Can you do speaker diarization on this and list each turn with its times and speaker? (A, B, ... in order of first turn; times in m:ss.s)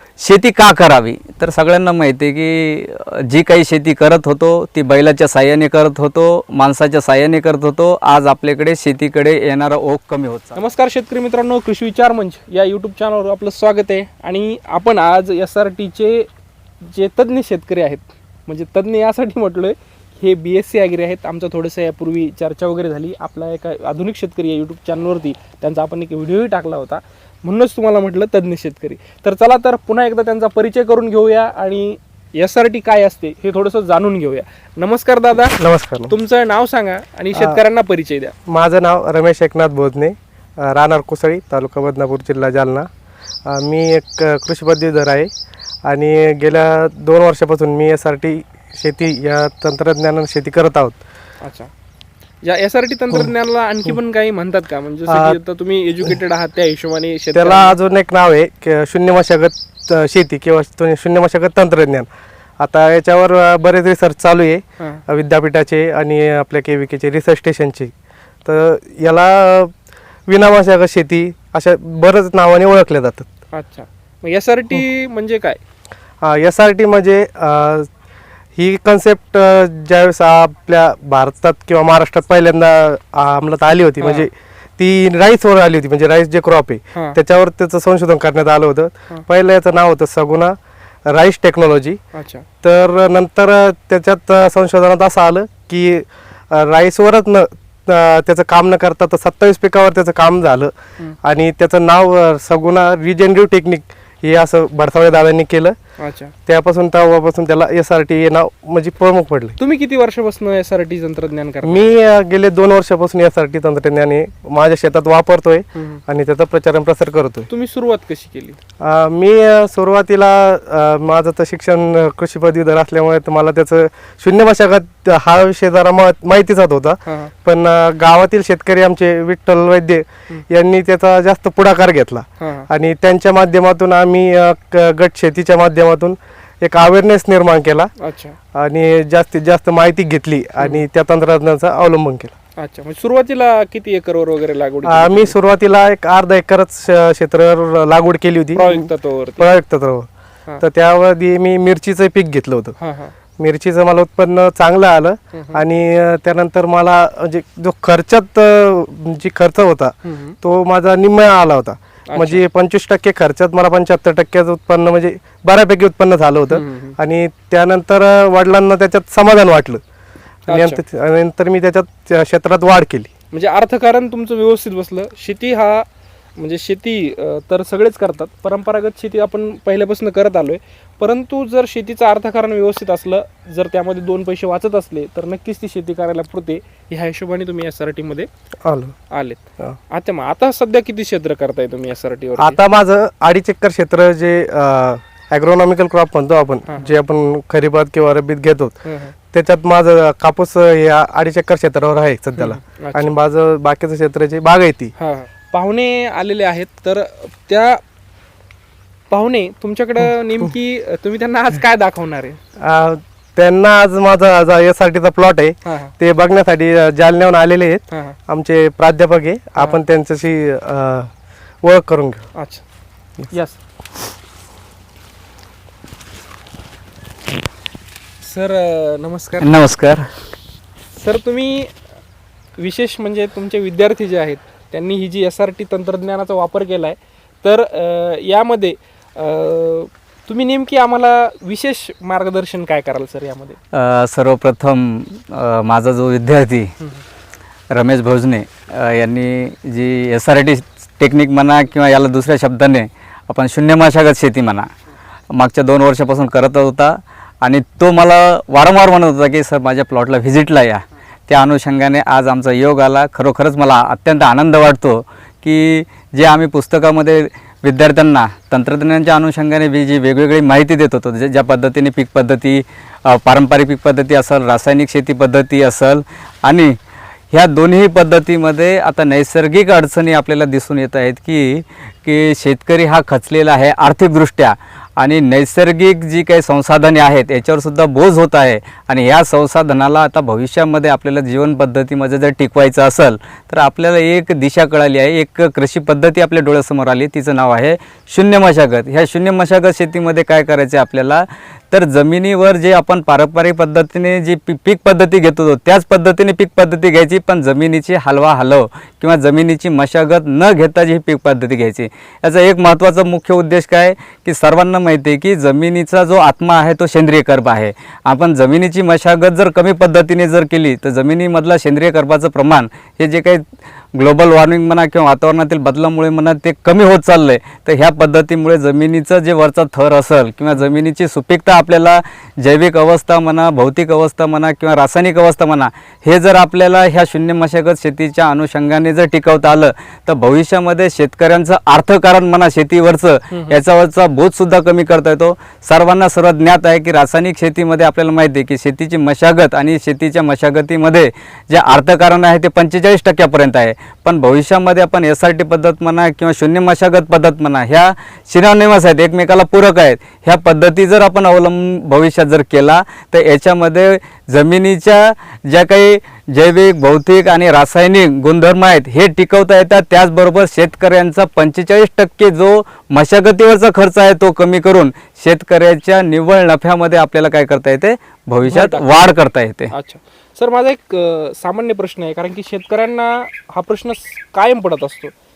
0:00.2-0:10.6 A
0:10.6-0:16.3 B
0:16.8-0:35.6 B
0:35.6-0:36.1 C
0:36.1-0:38.3 B
0:37.3-0:37.6 C
0:38.5-0:42.9 C
0:43.4-0:45.3 C
0:45.8-0:51.0 C
0:51.4-0:51.7 B
0:52.4-0:57.8 B
0:55.1-0:55.4 C
0:57.3-1:07.9 C
1:08.4-1:09.7 C
1:10.3-1:13.3 C
1:13.5-1:15.6 B
1:16.2-1:17.9 C
1:18.6-1:30.5 C
1:24.0-1:24.3 B
1:31.0-1:32.0 C
1:32.1-1:32.4 B
1:32.6-1:45.8 C
1:46.0-1:46.3 B
1:46.5-1:49.6 C
1:49.6-1:51.9 B
1:51.6-1:57.5 C
1:55.7-1:56.0 B
1:57.5-1:58.6 B
1:58.8-2:17.9 C
2:07.0-2:07.3 B
2:12.4-2:12.7 B
2:18.0-2:18.4 B
2:18.5-2:22.3 C
2:20.6-2:20.8 B
2:22.6-2:25.3 B
2:24.8-2:30.1 C
2:28.5-2:29.5 B
2:30.6-2:32.8 C
2:32.8-2:33.1 B
2:33.4-2:49.8 C
2:35.3-2:35.6 B
2:40.0-2:40.4 B
2:42.1-2:42.4 B
2:46.5-2:47.0 B
2:50.5-2:53.1 C
2:50.5-2:50.8 B
2:53.3-2:55.8 B
2:56.4-3:08.3 B
3:08.6-3:08.9 C
3:09.1-3:09.4 B
3:09.9-3:12.6 B
3:12.4-3:18.8 C
3:16.7-3:16.9 B
3:18.8-3:19.1 B
3:19.3-3:24.9 C
3:22.4-3:23.1 B
3:25.0-3:27.8 B
3:29.1-3:32.4 B
3:32.6-3:41.1 C
3:35.6-3:35.9 B
3:37.9-3:38.2 B
3:41.6-3:42.2 C
3:42.3-3:42.6 B
3:43.3-3:43.6 B
3:48.2-3:49.5 B
3:49.4-3:50.1 A
3:50.9-3:51.7 B
3:52.6-4:03.6 B
4:03.7-4:06.7 A
4:07.7-4:14.7 A
4:15.3-4:36.8 A
4:37.3-6:19.7 A
5:43.3-5:43.6 B
6:18.4-6:19.1 B
6:19.7-6:25.1 B